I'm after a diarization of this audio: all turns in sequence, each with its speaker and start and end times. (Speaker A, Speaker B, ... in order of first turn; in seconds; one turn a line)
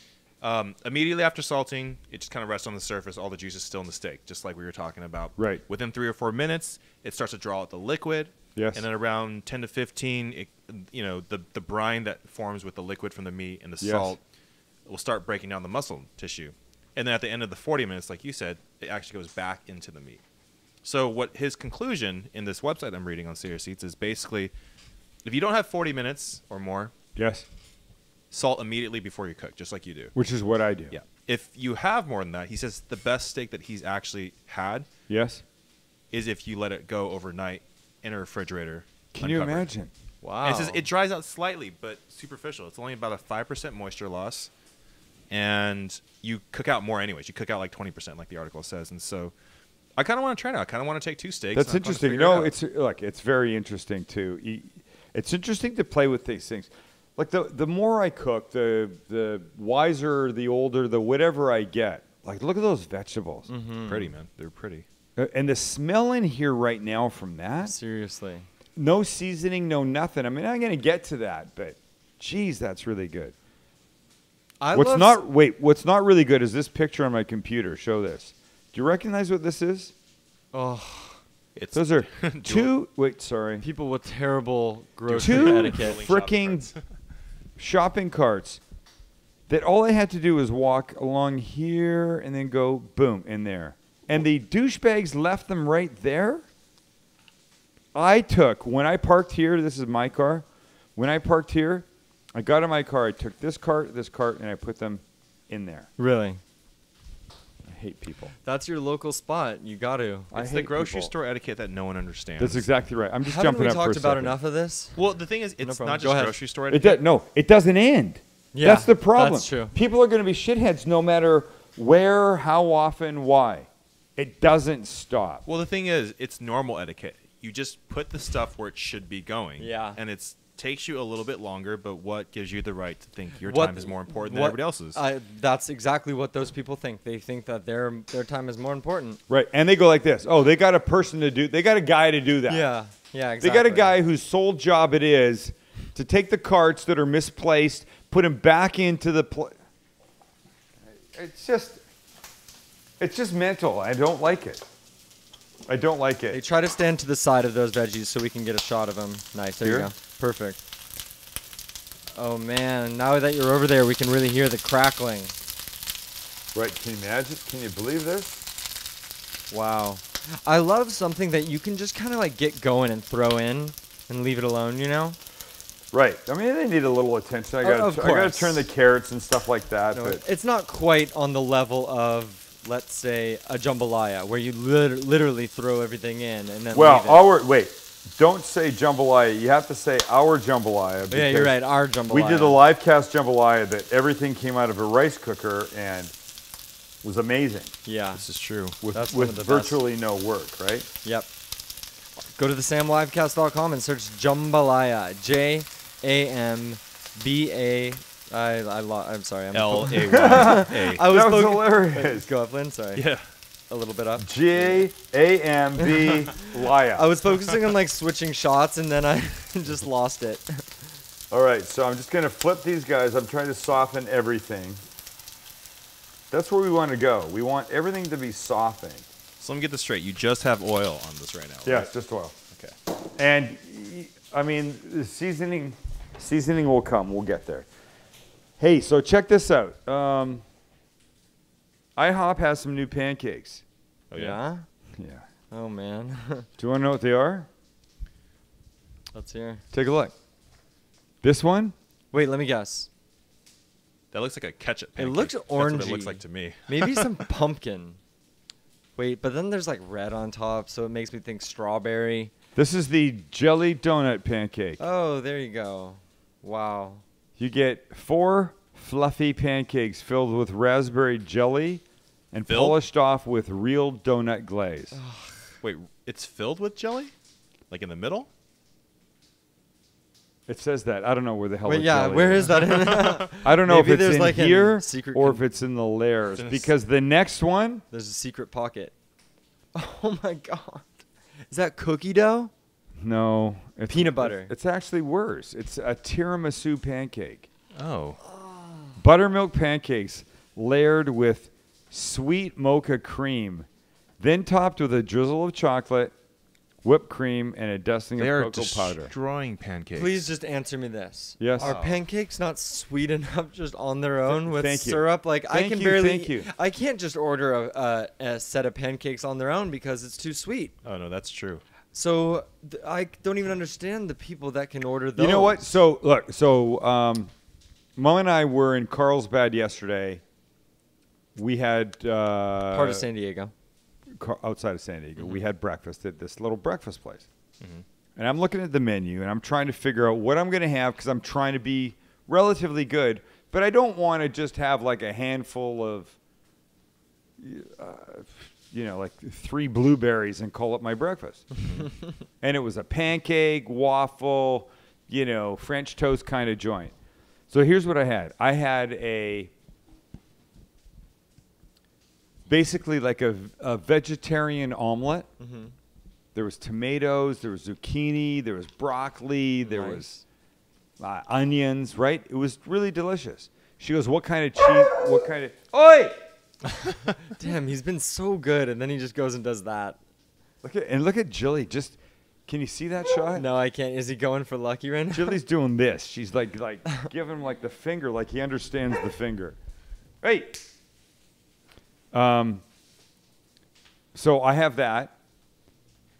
Speaker A: 0.4-14.2
Speaker B: 5.4-5.6
Speaker B: 8.6-8.8
Speaker B: 13.8-14.2
Speaker A: 14.8-20.2
Speaker A: 20.8-24.5
Speaker A: 25.2-26.9
Speaker B: 27.1-27.4
Speaker A: 28.3-30.1
Speaker B: 30.1-30.9
Speaker A: 30.9-34.9
Speaker B: 35.1-35.4
Speaker A: 36.1-39.7
Speaker B: 39.1-39.9
Speaker C: 40.2-40.8
Speaker A: 40.4-44.5
Speaker A: 45.3-49.3
Speaker A: 50.0-52.5
Speaker B: 51.5-63.5
Speaker C: 63.5-64.1
Speaker A: 63.8-64.8
Speaker B: 65.2-67.7
Speaker C: 67.6-68.5
Speaker B: 68.8-73.3
Speaker C: 74.6-75.2
Speaker B: 74.7-79.9
Speaker C: 80.5-81.2
Speaker A: 81.5-82.7
Speaker B: 81.7-83.6
Speaker C: 83.6-86.0
Speaker A: 85.1-86.8
Speaker B: 85.2-86.7
Speaker B: 87.6-88.6
Speaker B: 89.5-96.5
Speaker B: 97.9-105.9
Speaker C: 106.0-106.4
Speaker B: 107.7-108.3
Speaker C: 108.4-110.3
Speaker B: 110.3-111.1
Speaker A: 110.3-112.7
Speaker B: 112.4-114.4
Speaker C: 113.2-115.0
Speaker A: 114.9-117.0
Speaker C: 115.6-116.4
Speaker B: 116.7-125.4
Speaker C: 118.5-119.7
Speaker A: 125.5-135.0
Speaker C: 129.6-130.0
Speaker C: 133.4-139.2
Speaker B: 139.3-142.7
Speaker C: 142.5-143.9
Speaker B: 143.4-149.5
Speaker B: 151.0-151.8
Speaker B: 153.0-154.6
Speaker B: 155.7-156.4
Speaker C: 156.3-160.6
Speaker B: 159.6-159.9
Speaker C: 162.1-165.3
Speaker B: 166.5-168.4
Speaker C: 169.5-175.2
Speaker B: 175.9-180.2
Speaker C: 177.6-178.7
Speaker C: 179.9-187.3
Speaker B: 186.7-196.1
Speaker C: 191.1-192.6
Speaker B: 197.0-197.7
Speaker C: 197.8-198.2
Speaker A: 198.2-198.8
Speaker B: 198.8-200.9
Speaker C: 198.9-199.8
Speaker C: 201.0-201.3
Speaker C: 202.3-213.0
Speaker A: 209.5-211.0
Speaker B: 210.1-212.3
Speaker A: 212.9-213.2
Speaker C: 213.7-214.8
Speaker B: 214.2-217.1
Speaker C: 215.8-220.7
Speaker B: 221.3-224.8
Speaker B: 226.3-229.1
Speaker A: 229.4-231.9
Speaker B: 231.6-232.3
Speaker B: 233.2-237.7
Speaker B: 238.6-240.4
Speaker B: 242.0-243.6
Speaker A: 244.1-244.4
Speaker C: 244.1-244.7
Speaker B: 244.9-245.2
Speaker C: 245.5-246.5
Speaker B: 246.6-247.5
Speaker C: 249.1-249.6
Speaker B: 249.7-250.1
Speaker B: 251.2-251.8
Speaker C: 252.1-252.9
Speaker A: 254.1-257.3
Speaker C: 255.0-258.0
Speaker C: 259.0-262.3
Speaker B: 262.5-264.8
Speaker C: 264.8-267.0
Speaker B: 267.4-275.0
Speaker A: 272.5-272.8
Speaker C: 274.9-275.5
Speaker A: 275.6-277.1
Speaker A: 277.7-278.3
Speaker B: 280.5-282.6
Speaker C: 281.6-285.4
Speaker A: 282.5-283.1
Speaker B: 283.4-287.8
Speaker A: 286.4-286.7
Speaker C: 287.9-288.9
Speaker C: 289.7-290.9
Speaker C: 291.5-292.5
Speaker B: 293.0-297.5
Speaker C: 293.9-294.5
Speaker A: 297.7-298.2
Speaker C: 298.2-299.0
Speaker B: 299.0-303.7
Speaker B: 304.2-306.1
Speaker B: 306.8-309.1
Speaker A: 308.2-310.2
Speaker C: 309.9-320.8
Speaker B: 311.4-311.7
Speaker A: 311.6-312.0
Speaker B: 314.2-316.5
Speaker A: 320.8-321.6
Speaker C: 321.9-325.8
Speaker B: 325.1-327.3
Speaker B: 327.9-330.2
Speaker B: 331.4-333.1
Speaker C: 332.7-333.5
Speaker B: 334.1-337.2
Speaker B: 338.1-346.1
Speaker B: 347.4-351.5
Speaker B: 352.4-356.9
Speaker B: 357.5-359.5
Speaker B: 362.5-365.3
Speaker C: 365.4-365.7
Speaker B: 366.3-370.2
Speaker C: 369.6-370.1
Speaker B: 371.0-376.2
Speaker C: 377.1-380.0
Speaker B: 380.6-383.5
Speaker C: 383.3-385.4
Speaker B: 385.1-389.6
Speaker B: 390.2-390.6
Speaker B: 392.1-392.6
Speaker B: 394.1-395.1